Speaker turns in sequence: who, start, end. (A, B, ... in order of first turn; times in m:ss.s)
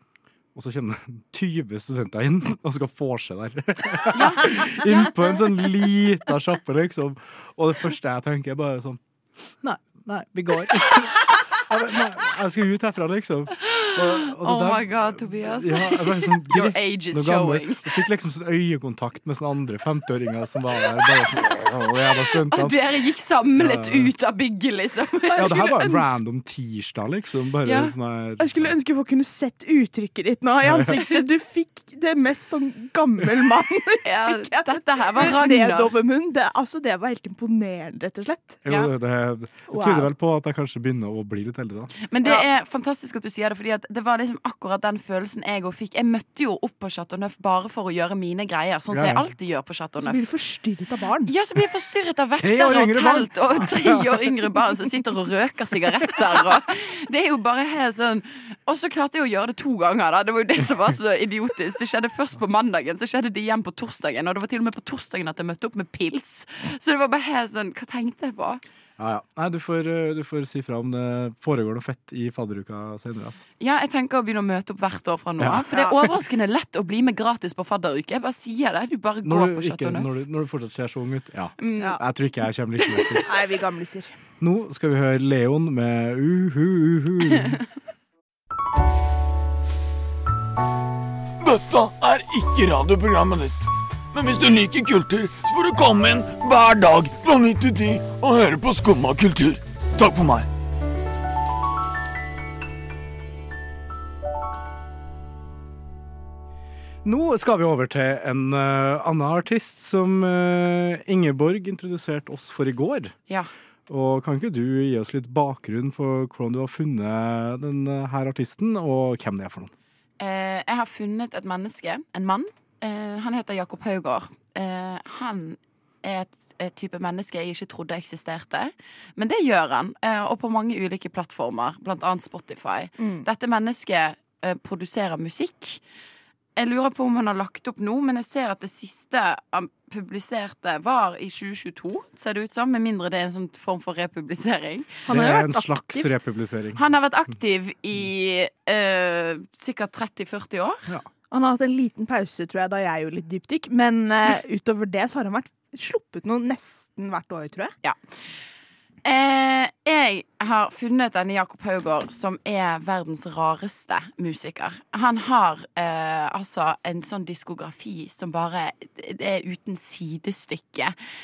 0:00.5-0:22.8 A
0:04.1-0:04.5 B
0:13.6-0:18.0 B
0:22.5-0:26.2 B
0:23.6-0:24.1 A
0:25.3-0:28.7 A
0:27.6-0:27.9 B
0:28.4-0:38.6 C
0:30.6-0:31.0 A
0:34.0-0:35.9 B
0:38.6-0:41.9 A
0:39.7-0:40.1 C
0:42.1-0:50.2 B
0:48.9-0:49.3 A
0:50.0-0:51.3 C
0:51.2-1:08.6 B
0:52.4-0:54.5 A
1:09.0-1:13.4 A
1:13.6-1:20.1 B
1:15.4-1:16.0 A
1:19.2-1:23.3 A
1:21.6-1:22.0 B
1:22.9-1:23.2 B
1:23.2-1:24.1 C
1:24.4-1:27.6 A
1:31.4-1:40.5 D
1:47.0-1:53.1 A
1:53.9-1:59.7 A
2:00.2-2:15.8 B
2:13.0-2:13.3 C
2:16.6-2:25.1 B
2:25.1-2:25.7 C
2:25.1-2:26.8 A
2:26.7-2:30.8 B
2:31.3-2:37.7 C
2:37.8-2:38.4 B
2:39.0-2:50.9 B